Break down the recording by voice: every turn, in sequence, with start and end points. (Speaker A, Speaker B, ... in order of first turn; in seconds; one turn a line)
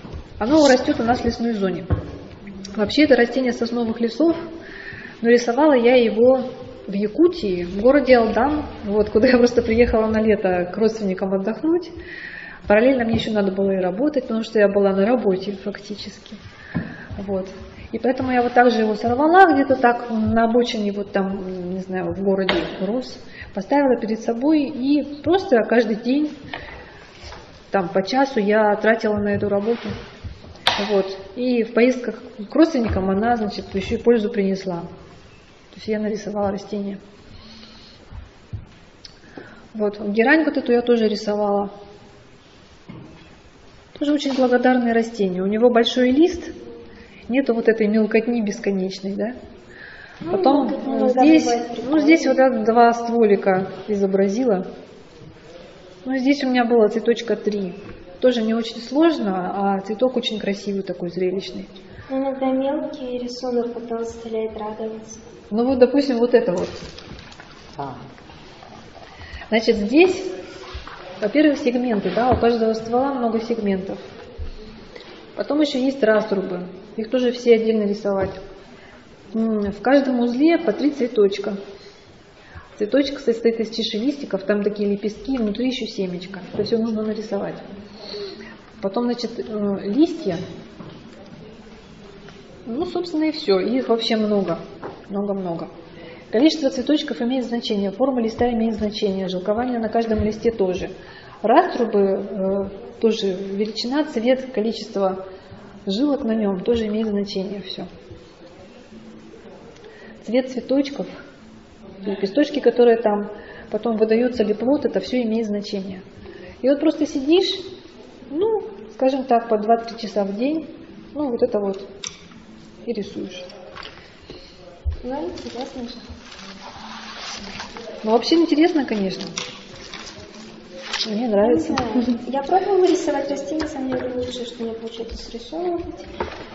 Speaker A: 0.4-1.9
Speaker A: 2.7-4.5
Speaker A: 5.2-11.9
Speaker A: 12.7-16.4
Speaker A: 17.2-26.4
Speaker A: 27.7-29.9
Speaker A: 30.8-34.9
Speaker A: 35.7-37.0
Speaker A: 39.7-41.7
Speaker A: 44.0-46.5
Speaker A: 47.3-49.4
Speaker B: 50.2-52.4
Speaker A: 50.3-54.7
Speaker A: 56.0-61.7
Speaker B: 62.1-65.2
Speaker A: 65.5-66.8
Speaker A: 69.5-70.3
Speaker A: 71.2-74.0
Speaker A: 75.4-78.4
Speaker A: 79.3-81.6
Speaker A: 82.8-87.6
Speaker A: 88.8-90.4
Speaker A: 92.7-95.7
Speaker A: 96.3-105.2
Speaker A: 105.9-107.9
Speaker A: 110.2-111.2
Speaker A: 112.0-116.0
Speaker A: 116.6-117.7
Speaker A: 118.3-121.9
Speaker A: 122.9-123.5
Speaker B: 125.0-126.0
Speaker A: 128.0-129.3
Speaker A: 131.0-131.8
Speaker B: 131.4-136.1